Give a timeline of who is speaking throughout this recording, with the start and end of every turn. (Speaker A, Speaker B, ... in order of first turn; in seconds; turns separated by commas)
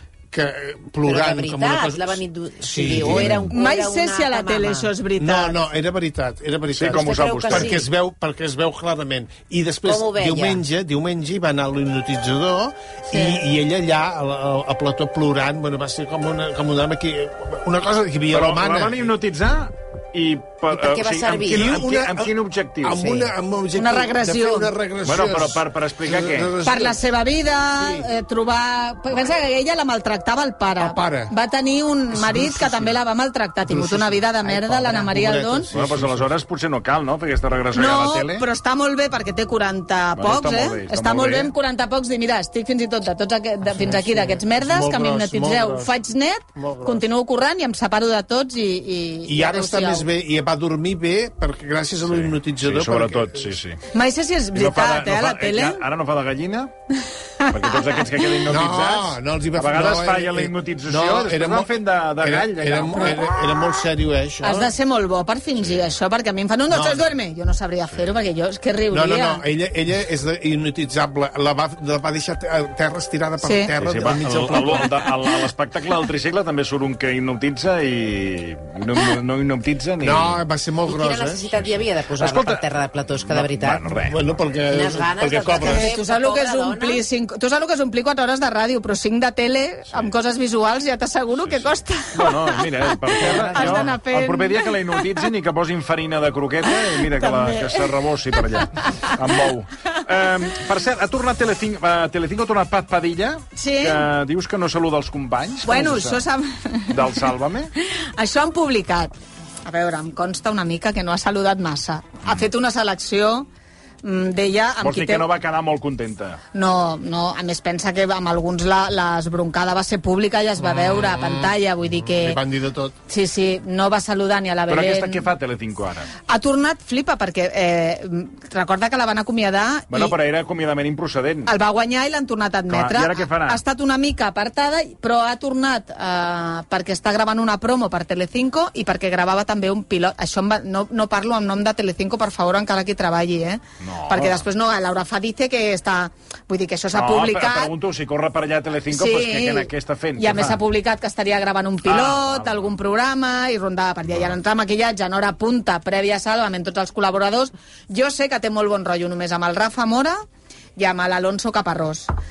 Speaker A: 0.3-3.5, Speaker B: 1.0-4.9, Speaker C: 3.0-3.3, Speaker D: 3.5-5.6, Speaker A: 5.2-19.1, Speaker C: 6.7-7.8, Speaker B: 6.9-7.8, Speaker B: 9.8-10.6, Speaker D: 13.1-13.4, Speaker C: 18.3-23.1, Speaker B: 20.7-21.8, Speaker A: 21.5-27.0, Speaker B: 23.0-23.3, Speaker D: 23.8-24.7, Speaker C: 25.0-26.5, Speaker D: 26.6-35.7, Speaker A: 27.7-28.1, Speaker A: 30.8-31.3, Speaker A: 32.1-33.0, Speaker A: 33.6-36.3, Speaker C: 35.7-38.5, Speaker D: 37.7-50.1, Speaker C: 40.2-41.5, Speaker A: 43.6-46.0, Speaker A: 46.5-47.0, Speaker A: 49.2-53.5, Speaker C: 52.1-53.8, Speaker D: 53.9-55.8, Speaker C: 54.5-56.7, Speaker D: 57.0-58.3, Speaker C: 57.5-63.3, Speaker A: 58.5-64.7, Speaker D: 64.4-69.4, Speaker C: 65.6-65.9, Speaker A: 66.7-67.0, Speaker A: 68.9-75.1, Speaker D: 73.4-73.7, Speaker C: 73.8-80.4, Speaker A: 80.0-81.4, Speaker B: 80.8-83.9, Speaker C: 81.6-84.3, Speaker A: 84.0-85.9, Speaker B: 84.7-87.0, Speaker D: 85.6-95.1, Speaker C: 91.4-106.2, Speaker B: 93.2-93.9, Speaker D: 96.8-97.9, Speaker D: 98.6-99.2, Speaker D: 103.5-104.1, Speaker D: 105.6-107.1, Speaker C: 106.9-107.7, Speaker D: 108.2-109.1, Speaker D: 109.6-113.5, Speaker D: 114.0-115.2, Speaker C: 114.8-116.4, Speaker D: 116.5-122.4, Speaker A: 120.6-121.5, Speaker A: 122.0-122.9, Speaker D: 123.1-125.2, Speaker C: 124.7-126.1, Speaker D: 126.3-130.1, Speaker C: 129.9-131.5, Speaker D: 131.4-147.7, Speaker C: 132.7-133.6, Speaker C: 143.8-144.4, Speaker C: 146.9-150.6, Speaker D: 148.9-160.2, Speaker C: 151.8-152.7, Speaker D: 160.8-162.1